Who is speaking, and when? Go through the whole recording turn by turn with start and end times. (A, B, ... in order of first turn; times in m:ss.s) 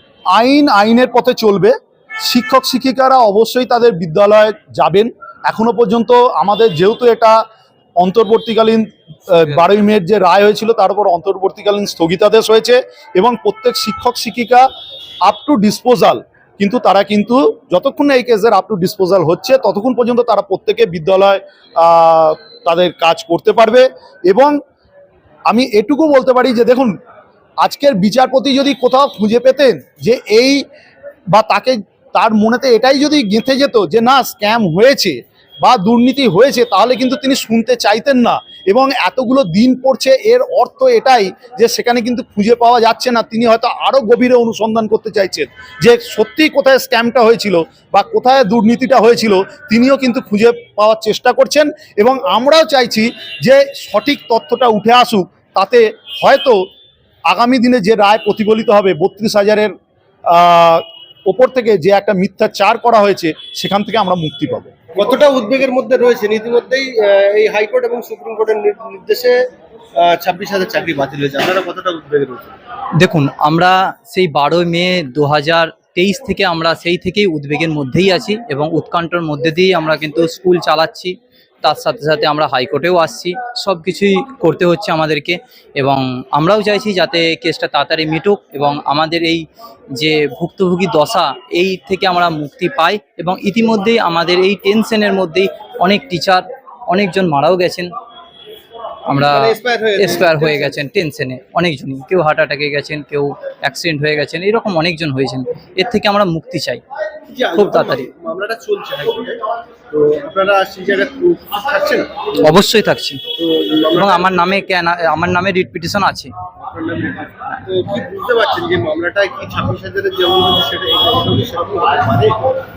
0:00.3-0:07.4 A
0:08.0-0:14.7 A
0:15.2-0:24.6 A
0:25.5-0:27.0 A
0:27.6-0:30.6 A
0:31.3-0:56.6 A
0:57.3-0:59.7 A
1:00.3-1:04.7 A
1:05.0-1:09.4 B
1:10.0-1:12.5 B
1:13.0-1:37.9 C
1:39.1-1:46.8 C
1:39.1-1:40.8 B
1:47.3-1:52.3 B
1:47.5-1:48.1 C
1:52.4-1:53.2 C
1:53.4-1:54.4 B
1:53.9-1:56.3 C
1:56.7-2:02.4 B